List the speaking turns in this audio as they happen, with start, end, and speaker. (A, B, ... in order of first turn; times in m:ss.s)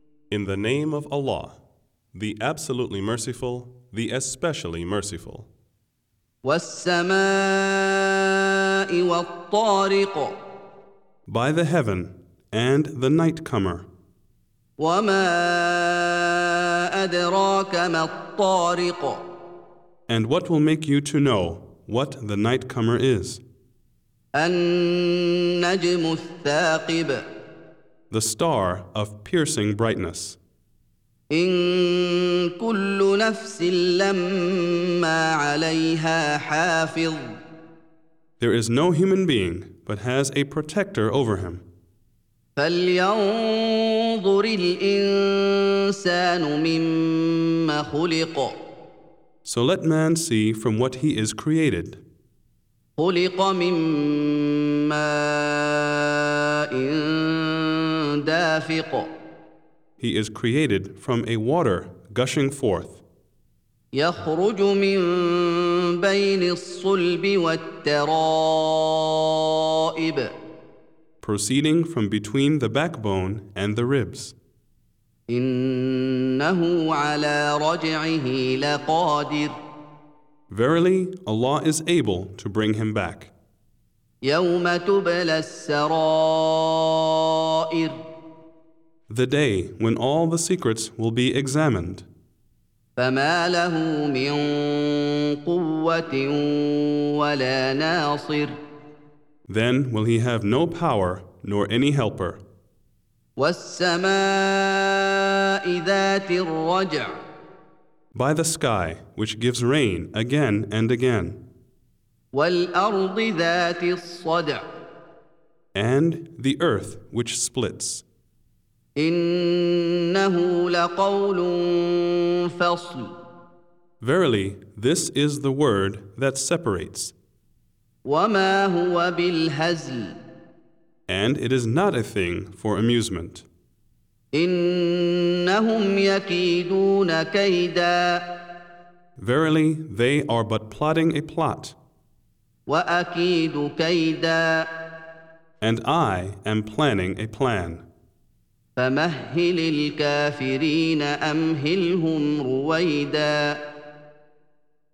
0:00.3-0:01.6 A
0:02.1-0:05.5 A
0:06.4-0:08.3 B
0:08.9-0:10.4 B
0:11.3-0:13.9 A
0:14.8-0:19.2 B
0:20.1-0:23.4 A
0:24.4-0:27.2 B
0:28.1-0:30.4 A
0:31.3-0:37.3 B
0:38.4-0:41.6 A
0:42.6-0:48.6 B
0:49.4-0:52.0 A
0:53.0-0:59.1 B
1:00.0-1:03.0 A
1:03.9-1:10.3 B
1:11.2-1:14.3 A
1:15.3-1:19.5 B
1:20.5-1:23.3 A
1:24.2-1:28.0 B
1:29.1-1:32.1 A
1:33.0-1:38.6 B
1:39.4-1:42.4 A
1:43.4-1:47.2 B
1:48.1-1:51.4 A
1:52.3-1:54.6 B
1:55.8-1:58.0 A
1:59.0-2:03.1 B
2:04.0-2:07.1 A
2:08.0-2:10.2 B
2:11.1-2:13.4 A
2:14.3-2:18.4 B
2:19.2-2:21.8 A
2:22.7-2:24.7 B
2:25.6-2:27.8 A
2:28.8-2:33.6 B